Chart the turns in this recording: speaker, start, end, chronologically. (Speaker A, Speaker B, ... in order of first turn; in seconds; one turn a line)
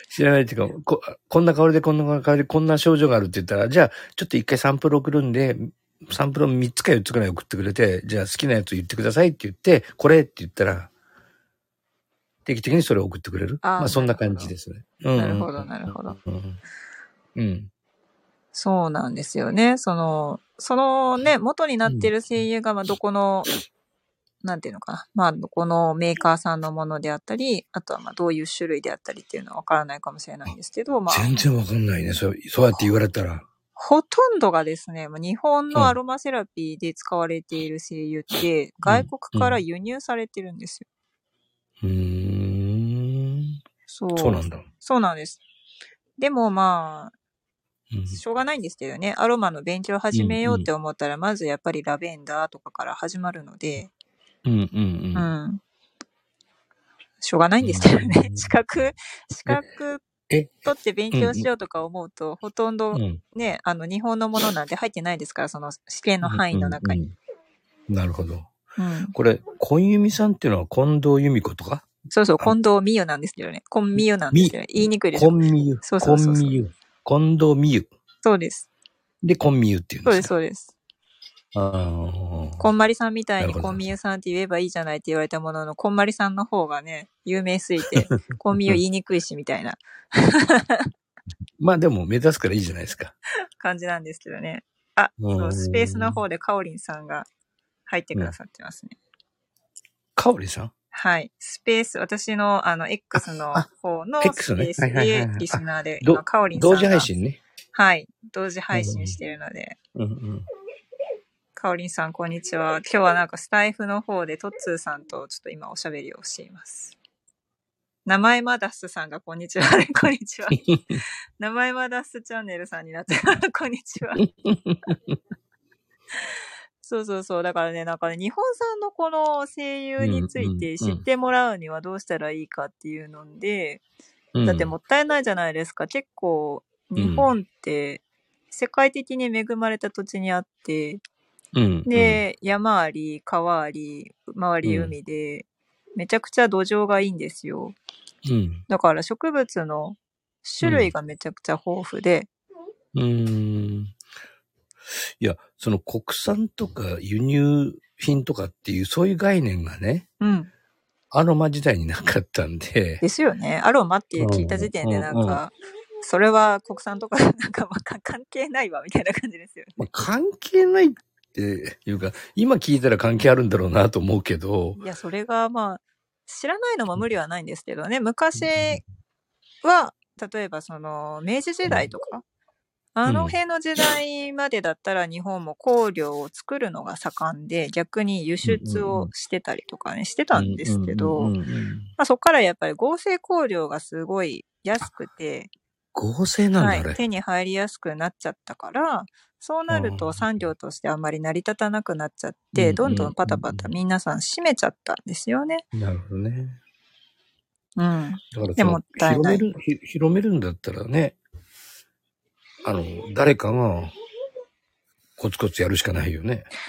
Speaker A: 0.1-10.9
Speaker A: 12.5-16.6
Speaker B: 13.6-14.5
Speaker B: 15.2-16.2
Speaker A: 17.4-17.7
Speaker B: 18.5-23.5
Speaker B: 24.4-31.3
Speaker A: 31.1-33.5
Speaker B: 33.8-40.9
Speaker A: 38.9-39.6
Speaker A: 41.8-43.6
Speaker B: 43.9-45.4
Speaker A: 44.2-44.7
Speaker B: 46.2-47.1
Speaker A: 47.9-48.2
Speaker B: 48.1-53.9
Speaker A: 50.1-50.7
Speaker A: 54.5-55.3
Speaker B: 55.1-55.6
Speaker B: 57.2-60.0
Speaker A: 57.6-58.5
Speaker A: 60.3-61.5
Speaker B: 60.6-67.0
Speaker A: 62.9-63.2
Speaker A: 66.2-67.1
Speaker A: 67.9-68.5
Speaker B: 68.8-69.1
Speaker A: 69.1-71.9
Speaker B: 72.1-76.6
Speaker A: 74.0-74.6
Speaker A: 75.1-77.9
Speaker B: 78.2-78.7
Speaker A: 79.2-80.3
Speaker B: 80.0-80.7
Speaker A: 81.5-82.7
Speaker B: 82.6-90.9
Speaker A: 83.4-83.8
Speaker A: 88.1-88.8
Speaker A: 91.6-93.1
Speaker B: 93.6-97.3
Speaker A: 95.2-96.2
Speaker B: 97.9-99.0
Speaker A: 100.2-100.7
Speaker B: 100.9-107.1
Speaker A: 103.2-103.7
Speaker A: 104.2-107.4
Speaker B: 107.7-109.8
Speaker A: 108.7-109.2
Speaker A: 110.0-110.5
Speaker B: 111.6-117.0
Speaker B: 118.1-120.6
Speaker A: 120.5-121.0
Speaker B: 121.4-124.2
Speaker A: 124.2-125.2
Speaker B: 126.8-133.8
Speaker A: 130.0-131.0
Speaker A: 134.3-134.7
Speaker B: 134.4-141.0
Speaker A: 137.0-137.3
Speaker A: 141.5-142.2
Speaker B: 141.9-147.8
Speaker A: 144.6-144.9
Speaker A: 148.2-148.6
Speaker B: 148.7-152.3
Speaker A: 150.6-150.9
Speaker A: 152.9-153.9
Speaker A: 155.2-160.1
Speaker B: 160.2-160.5
Speaker A: 161.1-163.0
Speaker B: 163.0-165.5
Speaker A: 164.2-165.4
Speaker B: 166.0-169.8
Speaker A: 169.8-174.8
Speaker B: 174.8-178.8
Speaker A: 178.4-178.8
Speaker B: 179.6-182.2
Speaker B: 183.0-191.3
Speaker A: 183.1-183.4
Speaker A: 188.4-189.1
Speaker A: 190.3-191.9
Speaker B: 192.0-195.5
Speaker A: 195.9-197.0
Speaker B: 196.6-205.6
Speaker A: 199.7-200.4
Speaker A: 202.6-203.7
Speaker A: 205.7-206.6
Speaker B: 207.8-209.5
Speaker A: 208.3-211.2
Speaker A: 212.6-213.9
Speaker A: 215.2-216.5